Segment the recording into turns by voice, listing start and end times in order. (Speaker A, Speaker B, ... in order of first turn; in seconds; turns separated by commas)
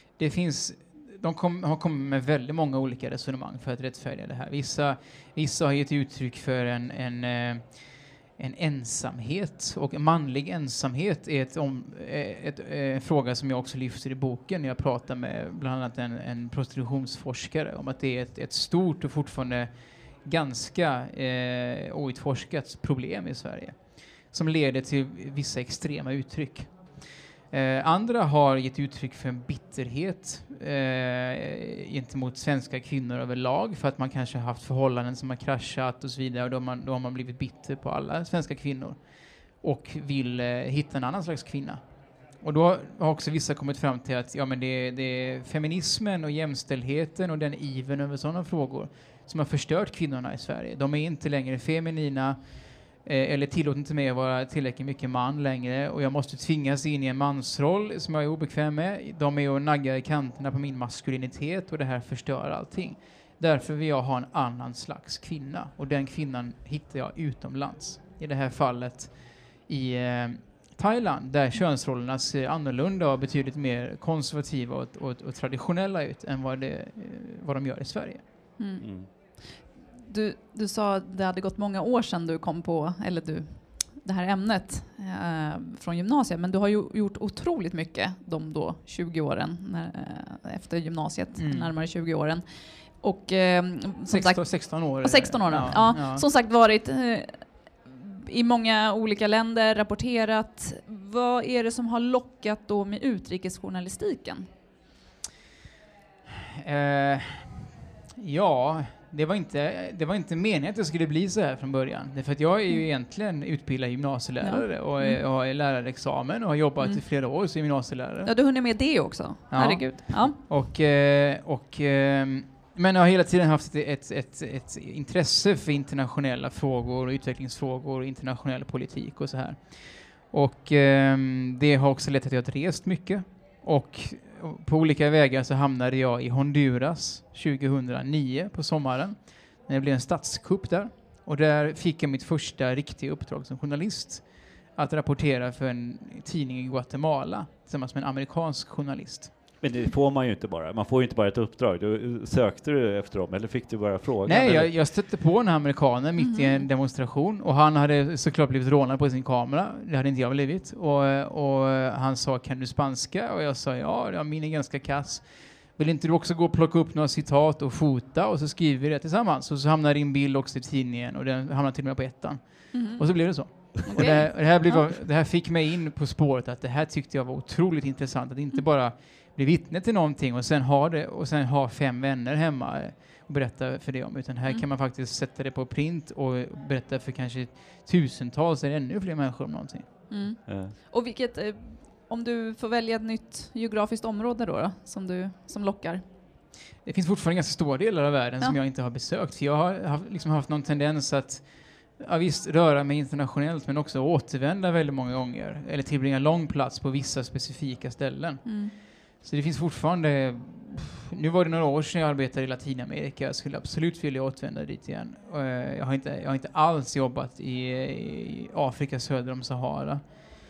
Speaker A: 0.2-7.8, Speaker A: 8.4-19.7, Speaker A: 20.2-26.9, Speaker A: 27.5-39.0, Speaker A: 39.6-41.8, Speaker A: 42.4-78.2, Speaker B: 78.6-104.5, Speaker C: 78.8-79.1, Speaker A: 91.3-91.7, Speaker A: 94.1-96.2, Speaker A: 106.6-118.3, Speaker B: 114.4-115.2, Speaker B: 118.2-120.3, Speaker A: 119.5-149.3, Speaker C: 149.6-154.7, Speaker A: 154.2-190.1, Speaker B: 156.2-156.7, Speaker B: 172.7-174.9, Speaker B: 190.1-196.0, Speaker C: 190.4-190.7, Speaker A: 196.8-220.2, Speaker B: 208.4-208.7